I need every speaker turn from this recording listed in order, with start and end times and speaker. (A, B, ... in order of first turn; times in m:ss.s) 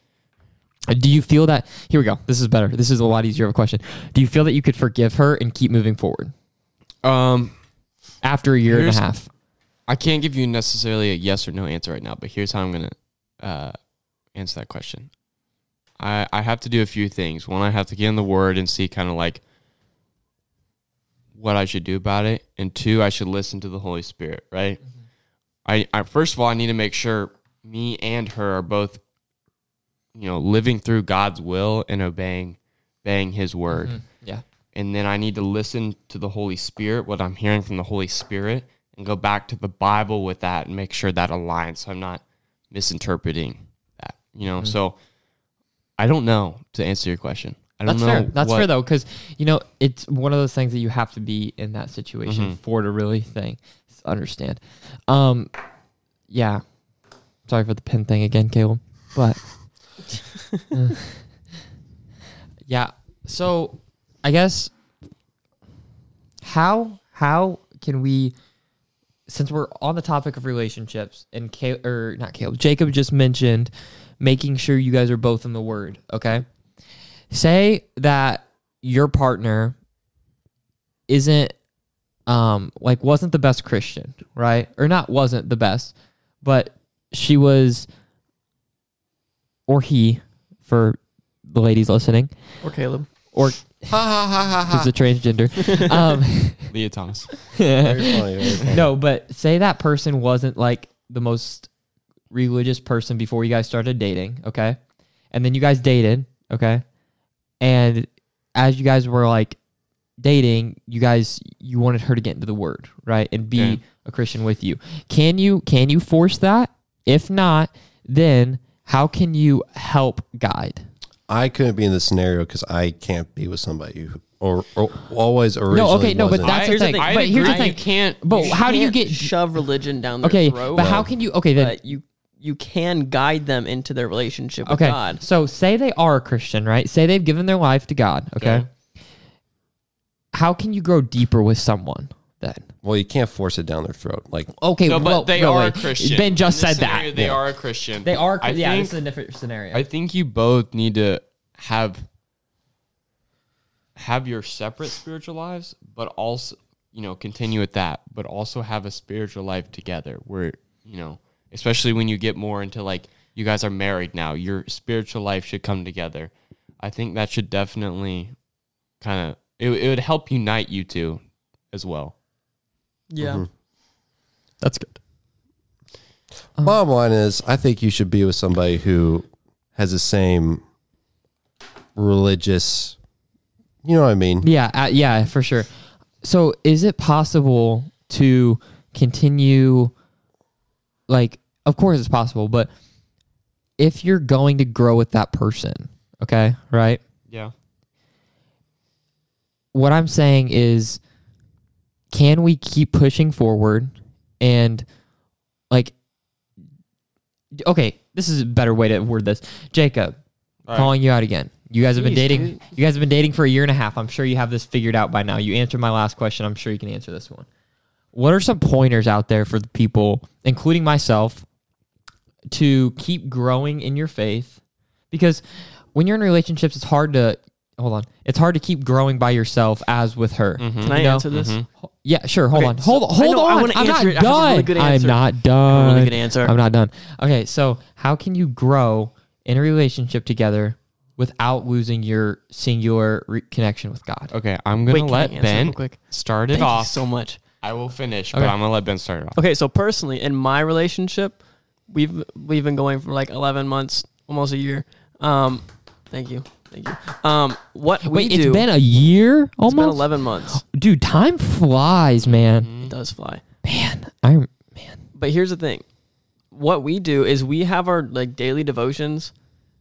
0:00.9-0:06.3 A
0:07.0-0:07.6 B
0:08.2-0:09.3 A
0:08.7-0:09.0 B
0:09.9-0:13.8 B
0:14.3-0:15.1 B
0:16.0-0:19.4 B
0:21.4-0:24.8 B
0:25.6-0:29.0 B
0:30.2-0:34.0 B
0:33.7-0:34.4 A
0:34.7-0:45.0 B
0:46.0-0:48.7 B
0:47.9-0:55.5 A
0:52.2-0:52.6 B
0:56.3-0:56.6 A
0:57.5-0:59.4 A
1:00.7-1:01.2 A
1:02.7-1:04.7 A
1:06.4-1:08.4 A
1:09.3-1:16.5 A
1:17.3-1:19.8 A
1:21.1-1:21.6 A
1:22.3-1:27.9 A
1:29.7-1:32.3 A
1:32.6-1:33.1 C
1:33.3-1:34.0 A
1:33.9-1:34.9 D
1:34.7-1:36.7 A
1:36.7-1:37.5 B
1:37.6-1:41.7 A
1:37.8-1:38.8 D
1:42.3-1:44.8 A
1:45.3-1:46.8 A
1:47.6-1:49.6 A
1:50.2-2:00.8 A
2:01.3-2:06.6 D
2:05.7-2:09.3 A
2:06.4-2:07.8 C
2:06.5-2:08.6 B
2:08.3-2:11.0 C
2:10.2-2:11.8 A
2:10.8-2:11.1 D
2:11.6-2:15.2 C
2:14.6-2:18.7 A
2:18.4-2:18.7 B
2:20.3-2:22.7 A
2:22.8-2:24.5 D
2:24.6-2:27.2 A
2:24.9-2:29.0 B
2:28.0-2:29.8 A
2:29.7-2:32.0 B
2:34.0-2:46.3 B
2:46.8-2:48.3 B
2:49.0-2:51.2 B
2:51.7-2:52.1 B
2:53.1-2:53.4 C
2:53.2-2:53.5 D
2:54.6-2:55.0 A
2:56.6-3:00.6 D
3:02.0-3:03.0 D
3:03.8-3:04.5 D
3:04.4-3:05.7 A
3:06.2-3:09.9 A
3:11.1-3:12.7 A
3:13.8-3:17.0 A
3:19.7-3:21.0 A
3:22.1-3:24.9 A
3:27.6-3:30.2 A
3:30.7-3:37.5 A
3:32.0-3:32.6 C
3:38.1-3:41.4 A
3:42.5-3:44.6 A
3:45.1-3:51.3 A
3:50.6-3:51.7 B
3:50.8-3:51.6 C
3:52.0-4:04.3 A
3:52.5-3:56.5 C
4:04.3-4:07.0 B
4:04.9-4:06.0 C
4:06.5-4:07.4 C
4:07.6-4:09.4 B
4:09.4-4:11.4 C
4:11.9-4:18.7 C
4:18.1-4:22.8 A
4:19.6-4:20.6 C
4:22.2-4:22.9 B
4:22.8-4:23.4 C
4:23.6-4:25.0 A
4:25.2-4:25.8 C
4:26.5-4:29.3 C